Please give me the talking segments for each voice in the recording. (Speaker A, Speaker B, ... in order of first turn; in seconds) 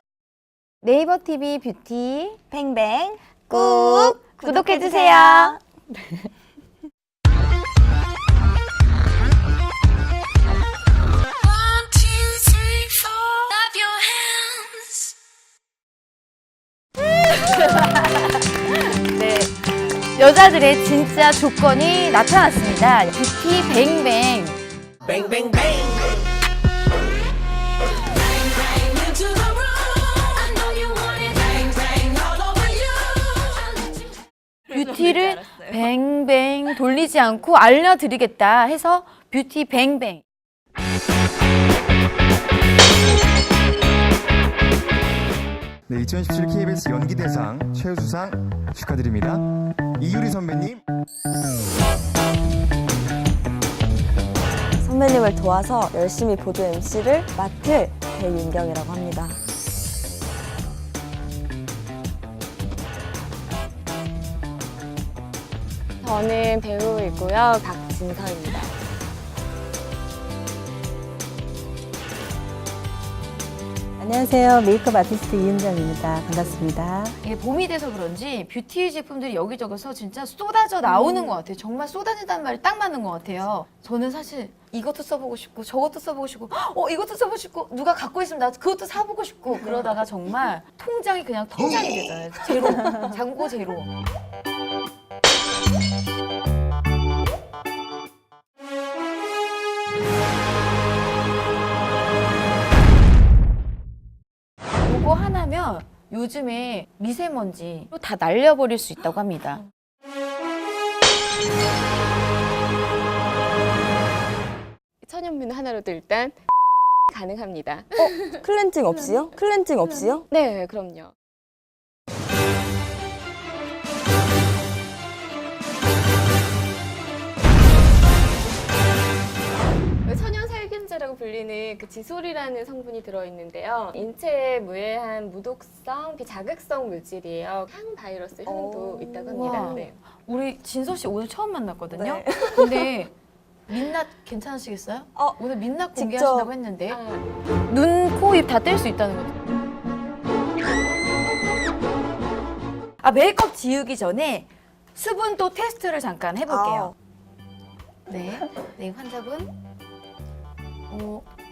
Speaker A: 0.8-2.4, 3.5-5.6, 17.4-19.5, 20.1-24.6, 34.7-40.2, 77.2-93.9, 104.8-109.6, 139.3-143.1, 143.7-147.0, 147.7-149.3, 153.0-156.9, 158.1-159.5, 160.9-161.3
Speaker B: 2.5-5.6, 54.8-59.4, 81.0-81.4, 89.6-90.0, 92.7-93.1, 118.0-120.3, 138.4-139.9, 141.9-142.9, 145.2-145.4, 145.9-146.5, 156.5-156.9
Speaker C: 45.9-50.8
Speaker D: 66.0-68.7, 115.0-116.4, 117.1-118.5, 120.3-121.1, 130.0-140.0, 146.9-147.3
Speaker E: 74.0-77.2